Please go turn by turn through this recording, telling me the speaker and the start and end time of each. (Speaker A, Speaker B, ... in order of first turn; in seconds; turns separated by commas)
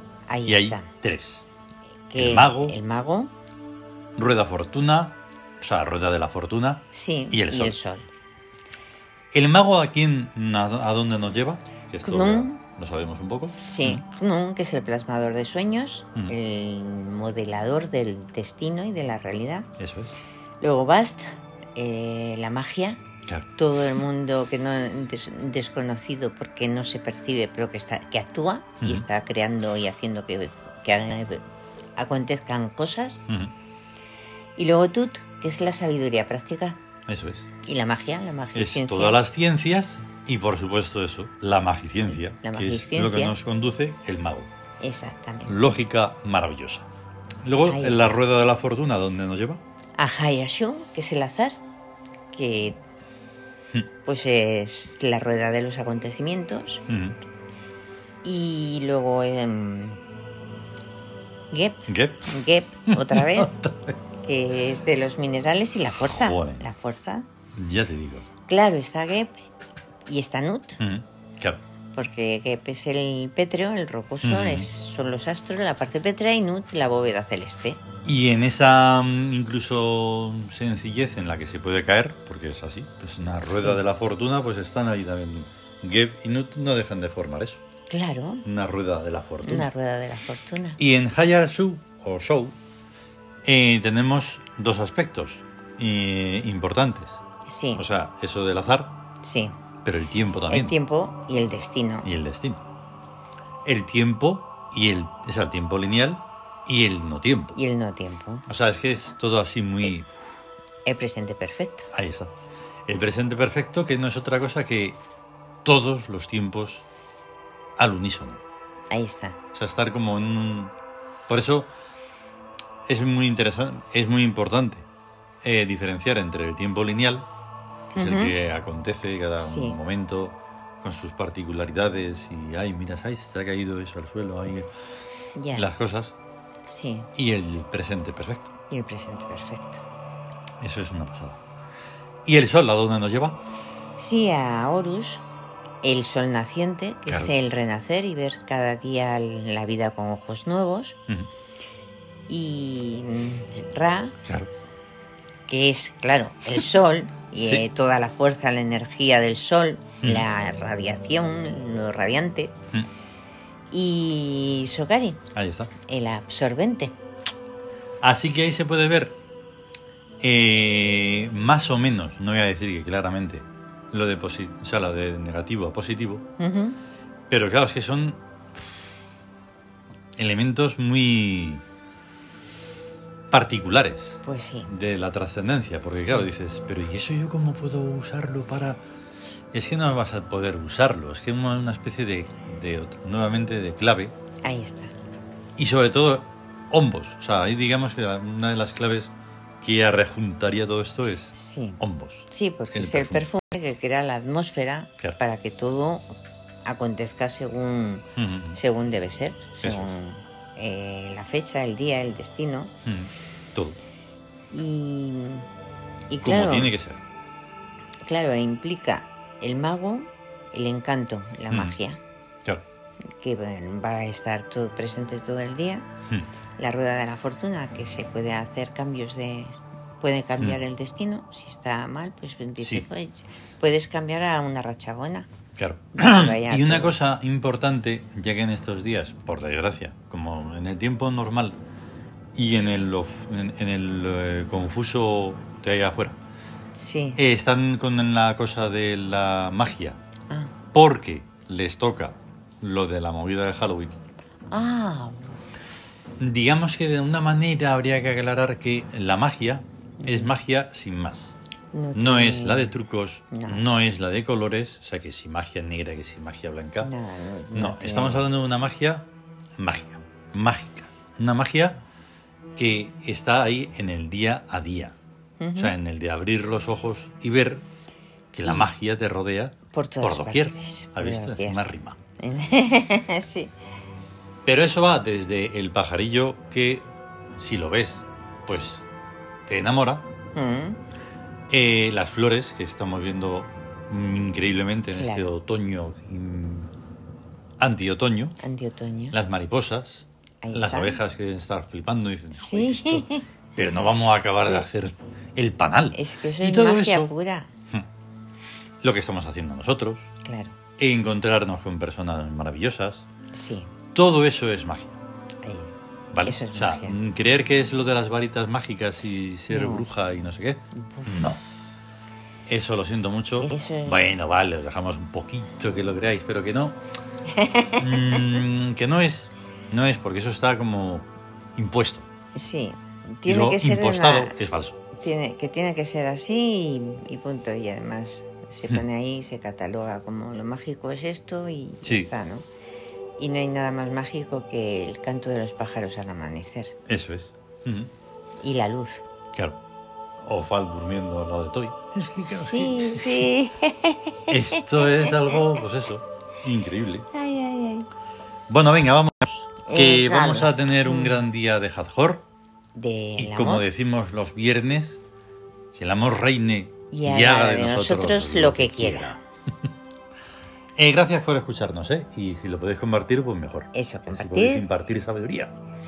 Speaker A: 0.3-0.9, Speaker B: 0.5-1.4, Speaker A: 2.1-3.3, Speaker B: 2.2-2.8, Speaker B: 4.2-7.8, Speaker A: 6.9-8.1, Speaker B: 9.3-14.0, Speaker A: 12.0-12.6, Speaker A: 13.7-19.7, Speaker B: 19.8-20.1, Speaker A: 20.6-23.0, Speaker A: 23.6-31.4, Speaker A: 32.0-33.2, Speaker A: 34.5-36.8, Speaker B: 37.1-37.5, Speaker A: 37.6-39.2, Speaker B: 38.5-44.5, Speaker A: 42.1-43.3, Speaker A: 44.8-45.5, Speaker B: 45.5-46.9, Speaker B: 47.4-49.6, Speaker A: 47.6-48.2, Speaker A: 50.0-51.6, Speaker A: 52.3-52.8, Speaker A: 54.0-56.8, Speaker B: 56.9-57.1, Speaker A: 58.2-60.0, Speaker A: 61.5-63.6, Speaker B: 61.9-62.3, Speaker B: 62.9-63.9, Speaker A: 64.2-67.2, Speaker B: 66.0-66.6, Speaker B: 67.5-68.2, Speaker A: 68.5-69.5, Speaker A: 70.1-70.8, Speaker B: 70.8-71.6, Speaker A: 71.9-77.8, Speaker B: 74.2-74.7, Speaker B: 78.0-87.6, Speaker A: 83.4-83.8, Speaker A: 87.9-88.4, Speaker B: 88.4-89.7, Speaker A: 89.4-90.8, Speaker B: 90.8-92.6, Speaker B: 93.4-97.2, Speaker A: 97.5-97.8, Speaker B: 97.8-98.9, Speaker A: 99.2-99.5, Speaker B: 99.8-100.8, Speaker A: 100.5-102.1, Speaker B: 102.0-102.6, Speaker B: 103.6-107.6, Speaker A: 107.5-108.5, Speaker B: 108.5-110.1, Speaker A: 110.8-111.9, Speaker B: 111.9-112.3, Speaker B: 112.9-115.0, Speaker B: 115.6-116.8, Speaker B: 117.8-118.4, Speaker A: 118.9-119.4, Speaker B: 119.5-120.7, Speaker B: 121.3-121.7, Speaker B: 122.9-124.8, Speaker B: 125.4-127.3, Speaker B: 127.9-134.7, Speaker A: 127.9-128.3, Speaker A: 129.4-129.8, Speaker A: 135.3-135.7, Speaker B: 135.5-136.1, Speaker A: 136.6-137.1, Speaker B: 137.2-138.5, Speaker A: 138.7-139.8, Speaker B: 140.6-141.4, Speaker B: 142.2-143.4, Speaker A: 144.0-145.2, Speaker A: 145.8-151.0, Speaker B: 147.1-147.3, Speaker A: 152.3-154.2, Speaker A: 155.5-162.5, Speaker A: 163.7-165.2, Speaker B: 165.3-165.7, Speaker A: 165.9-166.9, Speaker B: 168.0-169.2, Speaker B: 170.2-176.2, Speaker A: 176.4-176.8, Speaker B: 177.3-178.2, Speaker B: 180.2-181.6, Speaker B: 183.3-188.8, Speaker A: 184.2-184.7, Speaker A: 185.9-186.3, Speaker B: 189.5-194.1, Speaker A: 194.4-194.9, Speaker B: 195.6-203.2, Speaker A: 201.3-206.1, Speaker A: 206.6-212.7, Speaker B: 208.2-208.6, Speaker B: 209.6-209.9, Speaker B: 212.8-213.8, Speaker A: 214.5-215.4, Speaker A: 216.1-216.7, Speaker B: 216.2-217.0, Speaker A: 218.1-222.0, Speaker B: 221.5-221.8, Speaker A: 223.2-225.9, Speaker A: 226.6-235.3, Speaker B: 232.6-232.8, Speaker B: 235.6-241.6, Speaker A: 235.9-237.0, Speaker B: 242.3-246.2, Speaker A: 246.7-247.2, Speaker B: 247.2-250.0, Speaker B: 250.7-253.9, Speaker A: 254.5-255.4, Speaker B: 256.2-261.3, Speaker A: 260.0-260.3, Speaker A: 261.7-262.7, Speaker B: 261.9-266.9, Speaker A: 263.3-263.6, Speaker A: 266.8-268.3, Speaker B: 267.5-271.8, Speaker B: 272.6-274.9, Speaker A: 275.4-275.7, Speaker B: 275.6-277.6, Speaker B: 278.3-281.9, Speaker A: 279.7-281.6, Speaker A: 282.2-283.5, Speaker B: 284.4-288.8, Speaker B: 289.4-290.1, Speaker A: 290.3-290.8, Speaker B: 291.5-296.7, Speaker A: 294.9-295.3, Speaker B: 297.6-298.4, Speaker A: 298.4-299.1, Speaker B: 299.1-307.1, Speaker A: 300.4-301.0, Speaker A: 302.3-303.2, Speaker A: 305.9-307.5, Speaker B: 308.8-310.1, Speaker A: 310.2-310.5, Speaker B: 310.8-313.1, Speaker A: 313.3-313.7, Speaker B: 313.9-315.0, Speaker A: 315.4-317.0, Speaker B: 316.1-321.4, Speaker A: 319.5-319.9, Speaker A: 320.7-321.3, Speaker B: 322.5-326.8, Speaker A: 323.4-324.1, Speaker A: 327.3-328.4, Speaker B: 327.8-332.1, Speaker A: 332.3-334.4, Speaker B: 333.3-334.8, Speaker A: 334.9-342.4, Speaker A: 343.2-346.7, Speaker B: 346.9-347.9, Speaker A: 348.4-349.0, Speaker B: 350.2-353.3, Speaker A: 352.3-355.2, Speaker B: 354.3-357.1, Speaker A: 357.1-357.9, Speaker B: 358.5-362.2, Speaker A: 359.6-361.2, Speaker A: 362.7-363.6, Speaker B: 363.2-365.0, Speaker B: 365.7-369.2, Speaker A: 366.9-369.1, Speaker B: 370.8-375.5, Speaker A: 373.7-374.7